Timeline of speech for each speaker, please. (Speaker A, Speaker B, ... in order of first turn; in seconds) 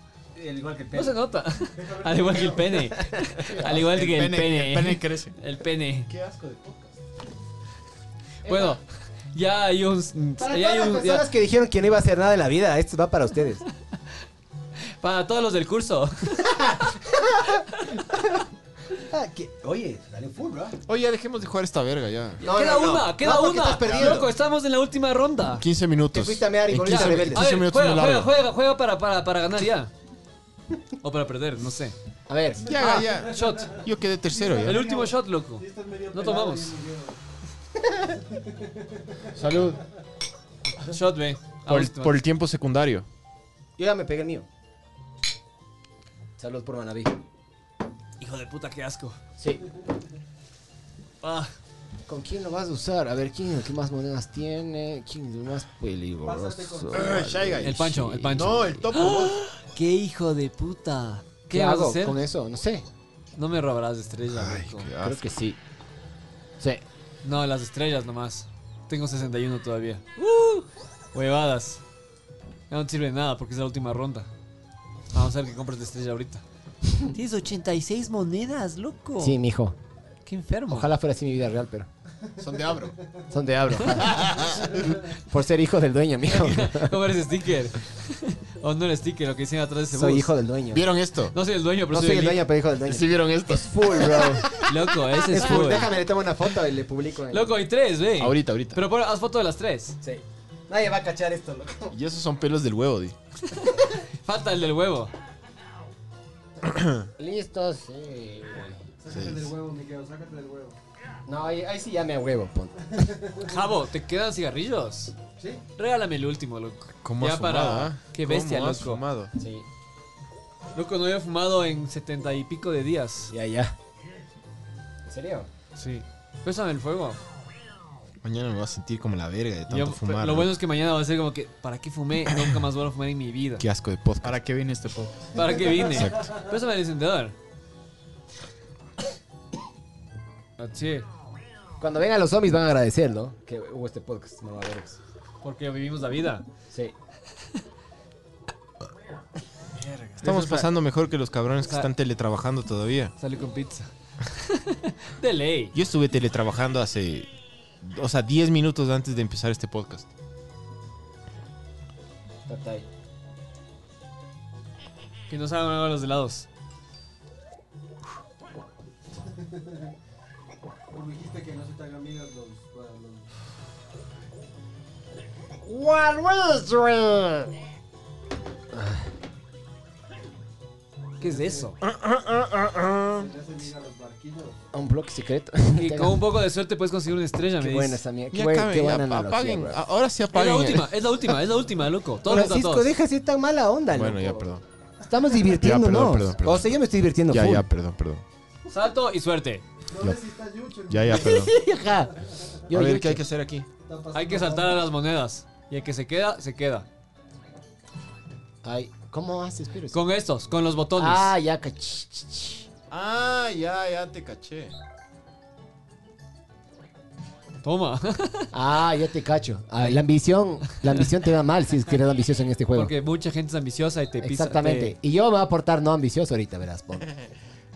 Speaker A: 0.3-1.2, 3.2-3.8, 8.4-8.8, 10.4-13.6, 16.5-18.2, 19.1-20.8, 22.4-24.3, 26.1-27.5, 32.3-32.7, 43.8-44.5, 46.4-47.2, 52.1-58.6, 61.5-62.9, 65.0-65.6, 79.2-79.8, 80.7-81.9, 83.3-87.0, 89.9-90.8, 91.9-94.7, 95.2-97.6, 100.0-101.9, 107.2-108.8, 111.3-113.1, 119.4-119.7, 123.3-123.8, 125.1-125.5, 141.8-145.0, 162.5-162.9, 178.7-179.0, 184.7-186.3, 187.6-189.8, 192.3-194.4, 195.1-197.6, 201.1-202.2, 202.7-203.2, 208.6-210.0, 211.0-212.7, 218.5-222.9, 224.2-227.1
Speaker B: 0.9-6.1, 8.5-8.8, 9.3-11.3, 15.0-16.8, 22.4-25.6, 26.8-29.9, 31.0-31.9, 32.7-33.8, 34.6-36.8, 40.8-42.2, 48.2-49.2, 51.2-51.5, 57.6-62.2, 63.4-64.9, 67.2-71.8, 72.7-74.3, 75.1-76.4, 77.0-79.4, 80.2-80.9, 86.3-90.3, 91.3-92.4, 94.6-96.0, 97.3-100.0, 103.5-105.1, 113.4-115.2, 115.8-119.0, 120.8-123.3, 125.8-127.2, 129.7-133.7, 135.3-137.3, 140.6-141.1, 145.4-146.4, 150.2-150.8, 153.2-155.8, 165.3-166.5, 181.2-181.8, 185.7-188.0, 190.3-192.9, 198.7-199.6, 204.1-206.9, 209.9-211.3, 217.6-218.5, 222.7-224.9
Speaker C: 1.8-2.9, 34.3-37.2, 38.1-39.3, 56.2-57.1, 109.0-110.8, 113.0-113.6, 115.4-115.6, 169.3-169.8, 170.9-173.3, 181.2-181.7, 183.1-184.7, 199.9-201.5, 203.8-204.9
Speaker D: 3.5-5.3, 23.9-24.2, 134.2-135.3, 149.8-150.2
Speaker E: 6.1-7.0, 20.9-22.4, 25.6-28.3, 32.6-34.8, 39.3-39.8, 41.7-43.1, 56.9-59.4, 64.3-65.2, 82.4-83.0, 83.9-84.8, 90.7-91.3, 92.8-94.5, 98.2-98.8, 101.9-103.2, 106.6-107.1, 109.1-109.5, 117.0-119.3, 128.2-130.5, 133.6-134.4, 135.7-136.3, 150.2-153.1, 155.7-157.3, 157.8-160.1, 175.7-177.5, 181.8-183.3, 188.3-190.9, 193.9-194.6, 195.5-196.7, 197.3-198.2, 200.9-201.5, 202.7-203.7, 212.9-214.7